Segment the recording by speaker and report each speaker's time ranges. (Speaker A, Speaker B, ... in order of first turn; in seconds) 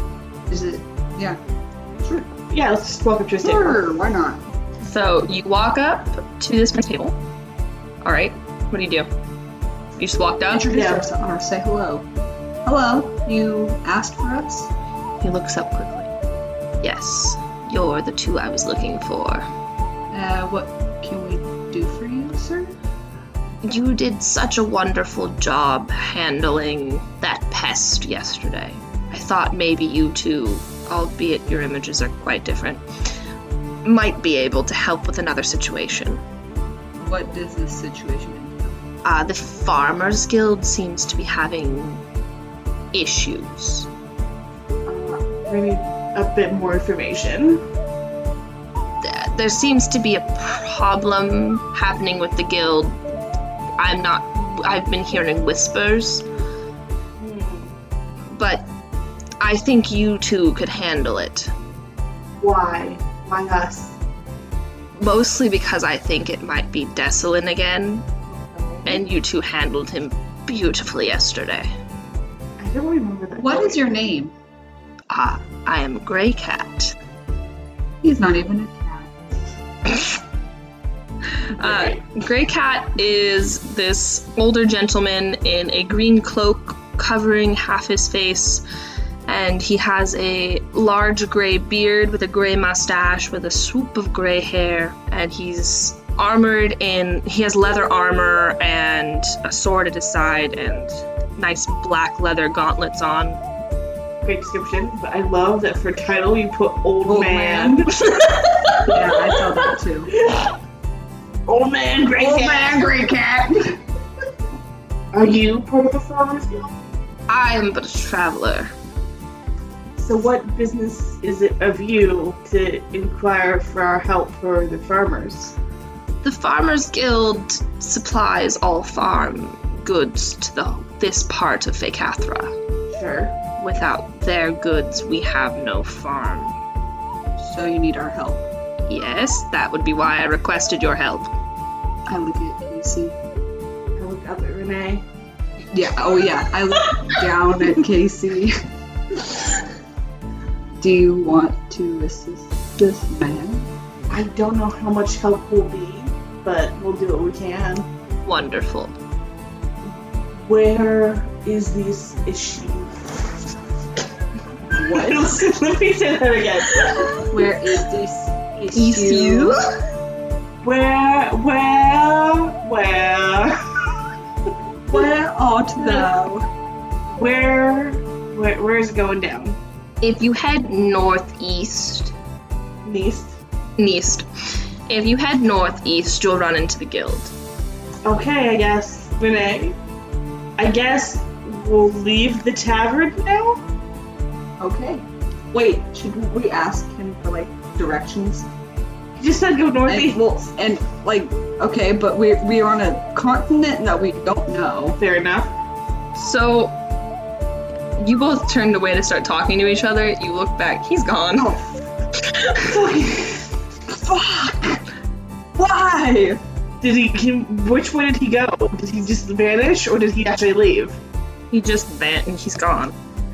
Speaker A: 0.5-1.4, 2.0-2.3, 3.4-4.5, 10.5-12.1, 12.7-14.7, 20.1-22.7, 37.0-38.8, 68.3-69.0, 73.3-74.3, 78.0-79.3, 107.0-107.9, 108.8-110.1, 112.1-113.8, 137.4-138.5, 142.1-143.2, 145.7-148.6, 150.8-153.7, 164.7-165.5, 167.3-169.6, 174.9-176.5, 194.6-198.5, 199.8-205.0, 211.4-211.6, 213.9-214.8, 215.6-216.4
Speaker B: 2.5-3.8, 10.7-11.1, 44.9-47.6, 57.2-57.7, 62.4-64.0, 72.6-73.8, 81.6-82.0, 104.2-107.9, 110.1-110.5, 111.5-112.9, 115.1-116.7, 120.0-125.5, 132.9-133.3, 144.0-145.0, 154.1-157.9, 159.8-163.2, 164.7-167.3, 170.6-173.6, 175.8-176.1, 177.1-179.6, 182.8-183.4, 188.0-189.8, 190.6-193.6, 199.2-200.2, 205.0-205.5, 212.6-213.5, 216.8-221.0
Speaker C: 4.8-7.2, 8.0-9.1, 10.0-10.7, 15.2-16.1, 16.8-19.4, 23.6-32.8, 33.8-36.2, 39.0-42.0, 42.9-43.9, 49.0-53.0, 53.8-56.2, 58.3-58.6, 59.4-61.5, 65.0-68.1, 68.8-71.7, 75.1-77.0, 81.5-88.6, 89.3-103.4, 108.0-109.0, 117.3-118.7, 126.2-132.5, 133.6-136.6, 138.9-141.3, 158.2-158.9, 168.7-169.7, 180.0-182.1, 183.8-187.3, 206.1-206.7, 208.0-211.5, 212.3-212.6, 221.5-222.9